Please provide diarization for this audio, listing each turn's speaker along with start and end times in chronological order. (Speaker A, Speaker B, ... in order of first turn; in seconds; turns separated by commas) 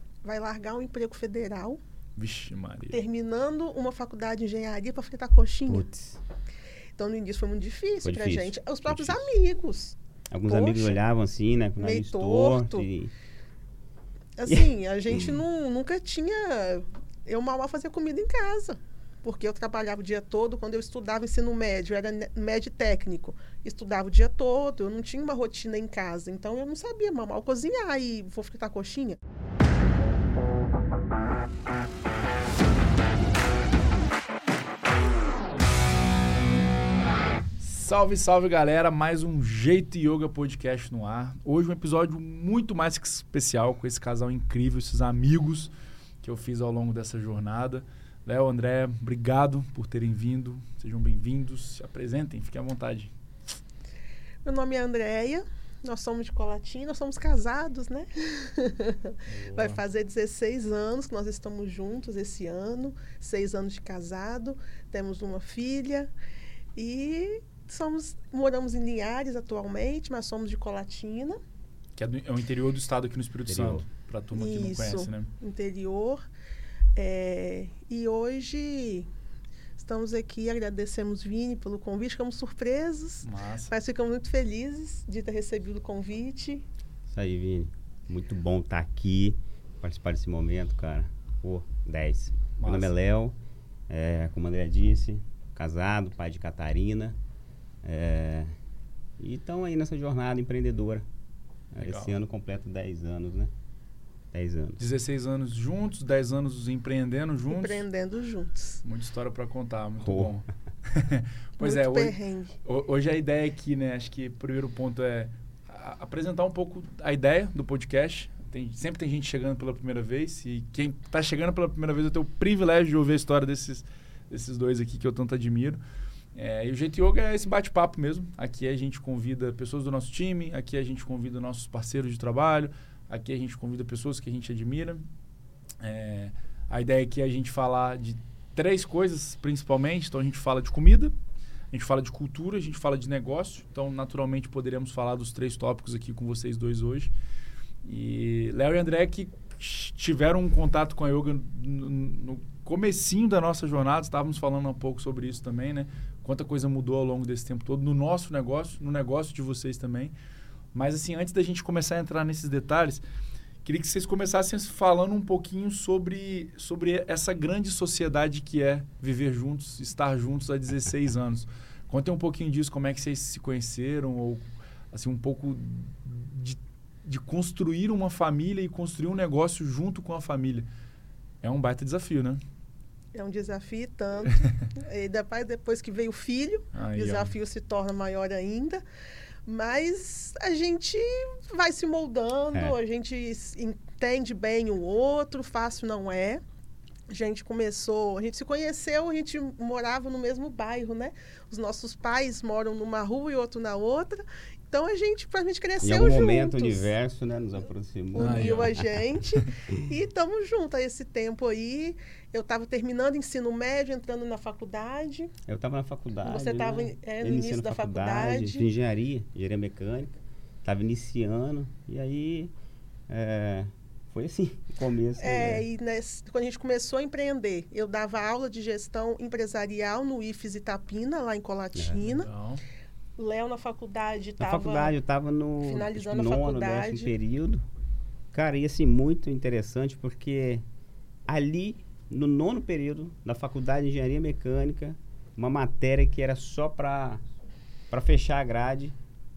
Speaker A: 0.2-1.8, Speaker B: 2.2-3.0, Speaker A: 2.9-5.8, Speaker C: 5.7-6.2, Speaker A: 7.0-11.0, Speaker C: 8.0-9.3, Speaker C: 10.3-13.1, Speaker A: 11.8-12.9, Speaker A: 14.4-29.2, Speaker C: 14.5-15.4, Speaker B: 37.6-53.1, Speaker A: 54.5-66.1, Speaker B: 59.3-59.8, Speaker A: 66.8-71.4, Speaker B: 72.0-75.3, Speaker C: 73.5-73.8, Speaker A: 74.3-76.2, Speaker A: 77.0-79.1, Speaker A: 79.8-86.6, Speaker B: 83.2-83.7, Speaker C: 87.1-93.4, Speaker B: 92.6-92.9, Speaker C: 93.9-97.2, Speaker C: 97.8-98.5, Speaker C: 99.2-101.1, Speaker C: 101.7-103.5, Speaker B: 101.8-102.1, Speaker C: 104.3-104.8, Speaker B: 104.8-107.8, Speaker A: 107.5-108.8, Speaker B: 108.8-125.8, Speaker C: 110.0-110.3, Speaker A: 111.6-112.5, Speaker B: 126.3-135.0, Speaker B: 135.8-141.1, Speaker B: 141.7-147.1, Speaker B: 147.8-160.1, Speaker B: 160.7-163.0, Speaker B: 163.6-180.7, Speaker B: 181.4-182.4, Speaker A: 183.1-188.8, Speaker B: 186.7-187.3, Speaker A: 189.4-196.4, Speaker A: 197.1-206.9, Speaker C: 205.8-209.0, Speaker A: 208.1-215.3, Speaker B: 208.2-208.7, Speaker C: 215.5-222.5, Speaker A: 216.2-218.7, Speaker C: 223.1-225.6, Speaker A: 225.2-232.3, Speaker B: 232.0-232.6, Speaker A: 233.2-234.9, Speaker C: 234.4-237.6, Speaker A: 235.6-237.1, Speaker C: 238.3-240.6, Speaker C: 241.2-247.2, Speaker C: 247.9-248.9